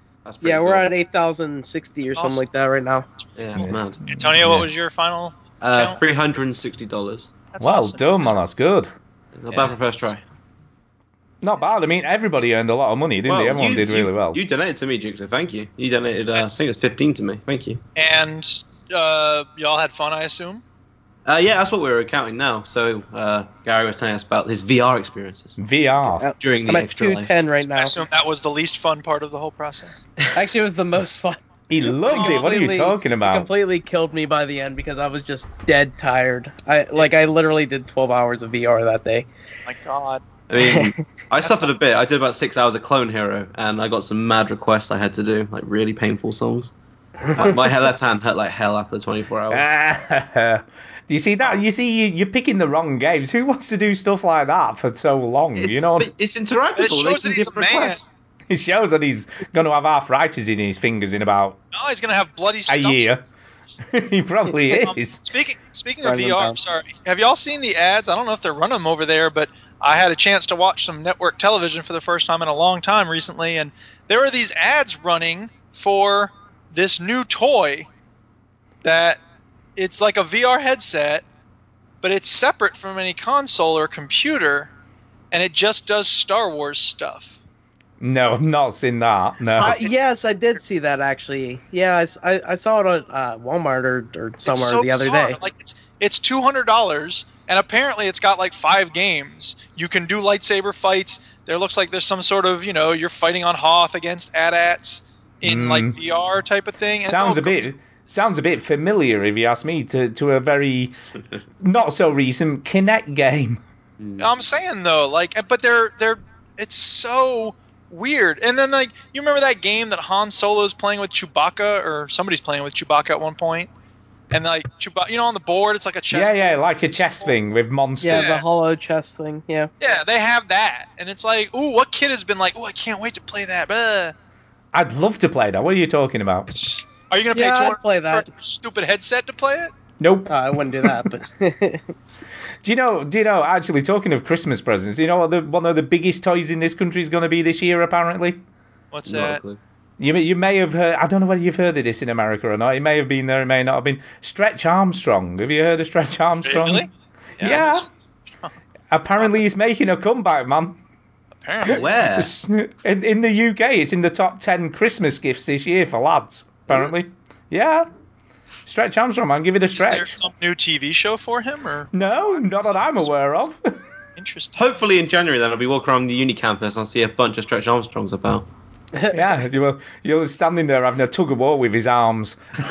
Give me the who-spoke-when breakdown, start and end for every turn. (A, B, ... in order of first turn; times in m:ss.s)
0:00.2-0:00.9 A
0:00.4-0:03.1 B
0:02.1-0:02.4 C
0:03.4-0:04.0 A
0:03.6-0:06.0 C
0:03.6-0:04.7 D
0:05.6-0:07.3 A
0:07.5-0:08.3 C
0:07.6-0:08.9 D
0:09.3-0:10.2 A
0:11.4-0:14.4 D
0:13.2-0:17.8 A
0:16.3-0:16.6 C
0:17.9-0:20.6 C
0:21.2-0:25.6 A
0:25.6-0:26.3 D
0:26.2-0:27.3 A
0:26.2-0:28.0 B
0:27.6-0:30.0 C
0:30.3-0:39.3 B
0:31.7-0:33.5 D
0:32.0-0:32.5 C
0:39.6-0:40.2 C
0:40.5-0:46.7 A
0:40.6-0:40.9 B
0:41.4-0:41.8 C
0:47.3-0:47.6 B
0:47.4-0:49.6 A
0:49.5-0:56.1 D
0:55.6-0:58.0 A
0:56.8-0:58.1 C
0:58.5-1:01.6 D
1:01.7-1:03.2 C
1:02.7-1:03.2 D
1:03.9-1:05.2 D
1:04.8-1:17.9 C
1:06.0-1:06.6 B
1:18.8-1:19.2 C
1:19.8-1:21.2 C
1:22.0-1:24.7 C
1:25.3-1:27.4 C
1:28.0-1:29.8 D
1:29.6-1:35.4 B
1:29.6-1:29.9 C
1:34.4-1:47.7 C
1:45.4-1:45.9 D
1:47.1-1:50.9 D
1:51.6-1:53.6 D
1:54.0-1:54.2 A
1:54.2-2:03.7 C
2:04.3-2:07.4 C
2:06.1-2:08.4 D
2:08.0-2:09.7 B
2:08.1-2:08.4 C
2:09.8-2:14.1 C
2:14.7-2:16.5 D
2:16.5-2:19.7 C
2:17.3-2:18.2 B
2:20.0-2:21.1 D
2:20.3-2:21.8 B
2:22.6-2:28.4 D
2:28.9-2:29.4 C
2:29.0-2:29.6 A
2:30.0-2:36.9 D
2:36.4-2:38.5 C
2:37.4-2:37.9 D
2:38.9-2:40.8 D
2:41.4-2:42.0 C
2:41.7-2:42.3 A
2:41.7-2:47.9 D
2:48.6-2:50.2 D
2:49.7-2:53.3 C
2:51.9-2:53.7 D
2:54.2-2:54.8 C
2:54.6-2:58.5 A
2:59.1-3:02.4 D